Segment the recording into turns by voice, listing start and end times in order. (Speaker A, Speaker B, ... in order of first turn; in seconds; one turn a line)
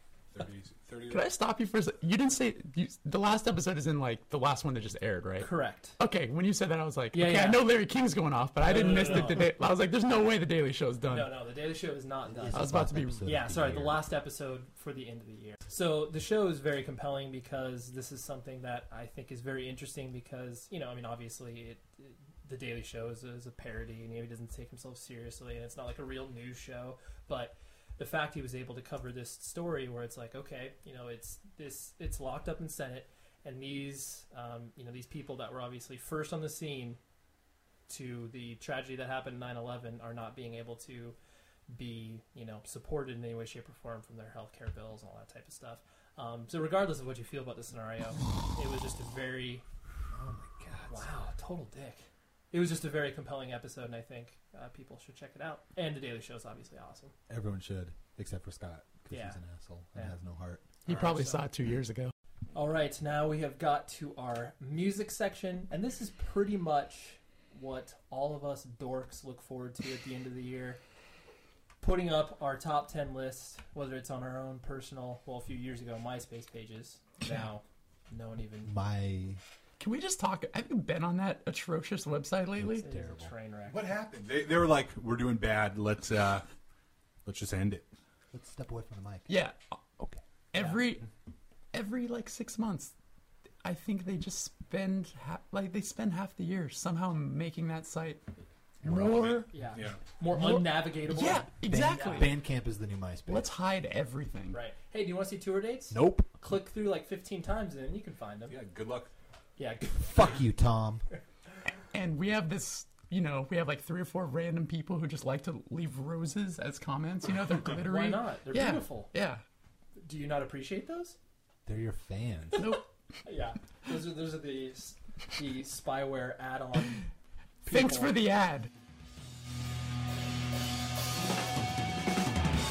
Speaker A: 0.3-1.3
Speaker B: 1.1-11.3
Speaker C: 5.4-6.0
Speaker C: 7.1-7.7
Speaker C: 8.6-9.5
Speaker C: 11.1-12.7
Speaker D: 12.2-14.0
Speaker B: 12.5-13.2
Speaker C: 13.2-37.0
Speaker C: 37.9-41.2
Speaker C: 41.7-49.6
Speaker D: 50.1-51.1
Speaker C: 50.9-57.1
Speaker D: 57.3-60.6
Speaker C: 59.1-59.4
Speaker C: 60.9-61.4
Speaker B: 60.9-62.1
Speaker C: 62.5-70.8
Speaker C: 71.8-78.7
Speaker D: 78.6-79.4
Speaker B: 79.8-82.8
Speaker D: 82.6-83.3
Speaker C: 82.8-83.9
Speaker A: 83.7-86.5
Speaker A: 87.2-87.9
Speaker D: 88.3-89.3
Speaker B: 89.3-89.8
Speaker B: 90.5-91.0
Speaker C: 90.5-90.8
Speaker B: 91.7-92.9
Speaker B: 93.6-98.2
Speaker D: 98.8-99.4
Speaker B: 98.8-99.5
Speaker A: 98.9-100.0
Speaker C: 99.5-102.3
Speaker B: 100.3-102.3
Speaker D: 101.7-103.5
Speaker B: 103.3-104.6
Speaker C: 104.5-108.5
Speaker D: 105.9-106.3
Speaker A: 108.5-109.1
Speaker C: 109.6-110.4
Speaker D: 109.9-111.0
Speaker B: 111.9-119.4
Speaker C: 117.8-119.1
Speaker C: 120.0-121.2
Speaker D: 121.7-122.6
Speaker B: 122.6-122.8
Speaker C: 123.2-127.1
Speaker C: 127.7-128.1
Speaker B: 127.7-128.7